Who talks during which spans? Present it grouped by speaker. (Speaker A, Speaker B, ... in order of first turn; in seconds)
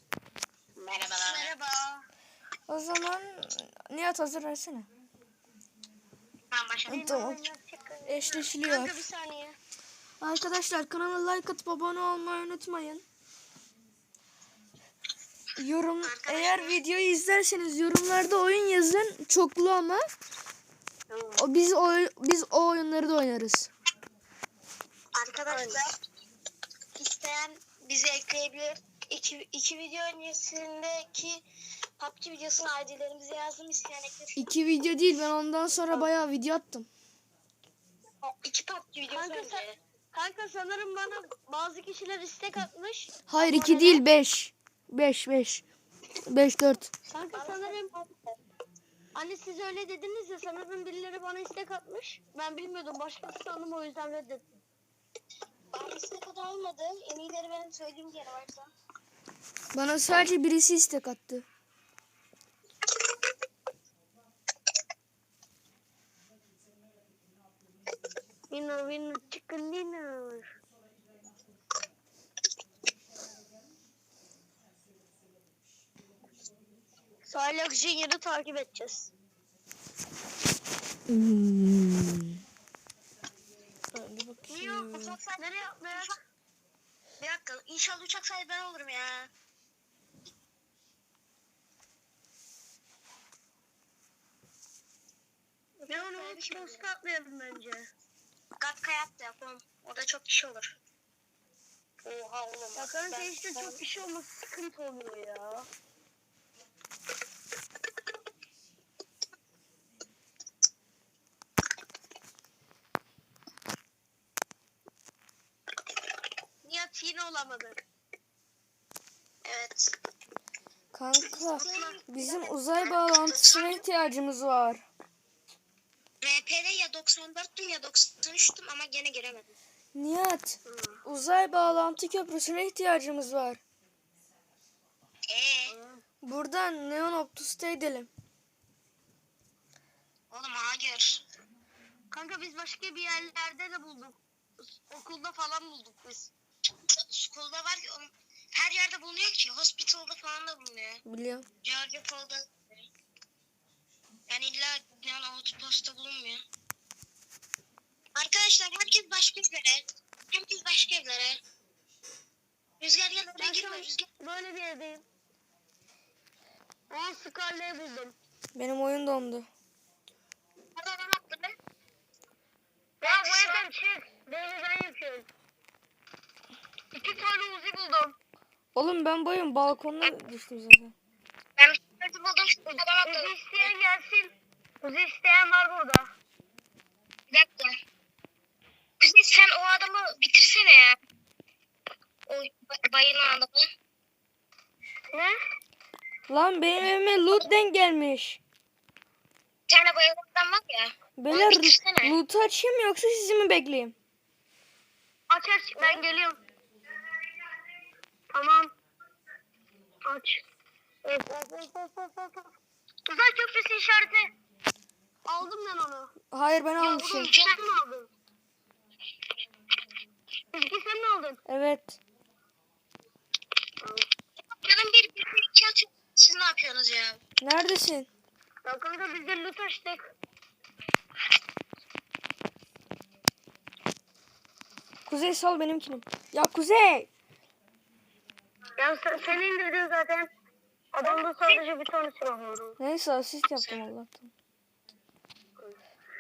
Speaker A: 0.8-1.9, 6.9-9.6, 21.1-21.4, 25.4-25.9, 39.1-44.0, 47.1-48.0, 49.1-54.6, 68.5-70.5, 77.2-79.1, 85.3-86.2, 95.8-97.9, 102.7-105.7, 116.6-117.8, 121.5-122.0, 130.7-131.0, 135.7-136.0, 142.1-144.2, 144.7-146.3, 163.4-165.0, 166.9-168.1, 173.0-175.3, 176.9-178.2, 183.0-186.1, 205.3-206.4, 208.3-208.7, 210.0-210.4, 211.0-212.5, 213.1-214.3, 215.2-216.1, 217.3-218.1, 220.5-221.4, 228.6-230.0, 238.8-240.3, 240.9-242.8
Speaker B: 0.9-1.6, 6.5-7.2, 16.0-16.8, 25.1-25.9, 26.9-31.4, 32.0-34.5, 38.2-39.8, 47.3-47.8, 55.7-58.7, 84.5-86.1, 87.2-89.3, 95.9-96.8, 98.6-100.8, 102.0-103.8, 119.4-120.0, 121.5-123.8, 126.2-129.5, 135.3-135.8, 140.3-141.2, 146.9-151.0, 151.6-152.8, 154.3-156.4, 158.1-161.4, 162.8-164.0, 170.8-171.6, 173.0-173.7, 181.6-183.7, 187.3-187.8, 189.0-191.0, 192.2-193.7, 199.7-202.2, 216.8-217.7, 224.5-227.2, 241.0-241.6
Speaker C: 2.7-4.9, 6.9-7.4, 8.1-9.0, 10.2-13.0, 15.6-20.0, 21.4-23.7, 34.3-36.9, 43.3-45.6, 46.3-46.9, 59.7-61.4, 81.1-82.4, 83.9-85.2, 120.9-124.8, 129.9-133.6, 136.2-138.1, 151.0-151.4, 168.5-169.5, 178.7-180.9, 196.3-198.4, 201.2-203.9, 216.3-217.3, 221.5-222.0, 227.4-228.1, 235.1-237.1, 242.8-244.3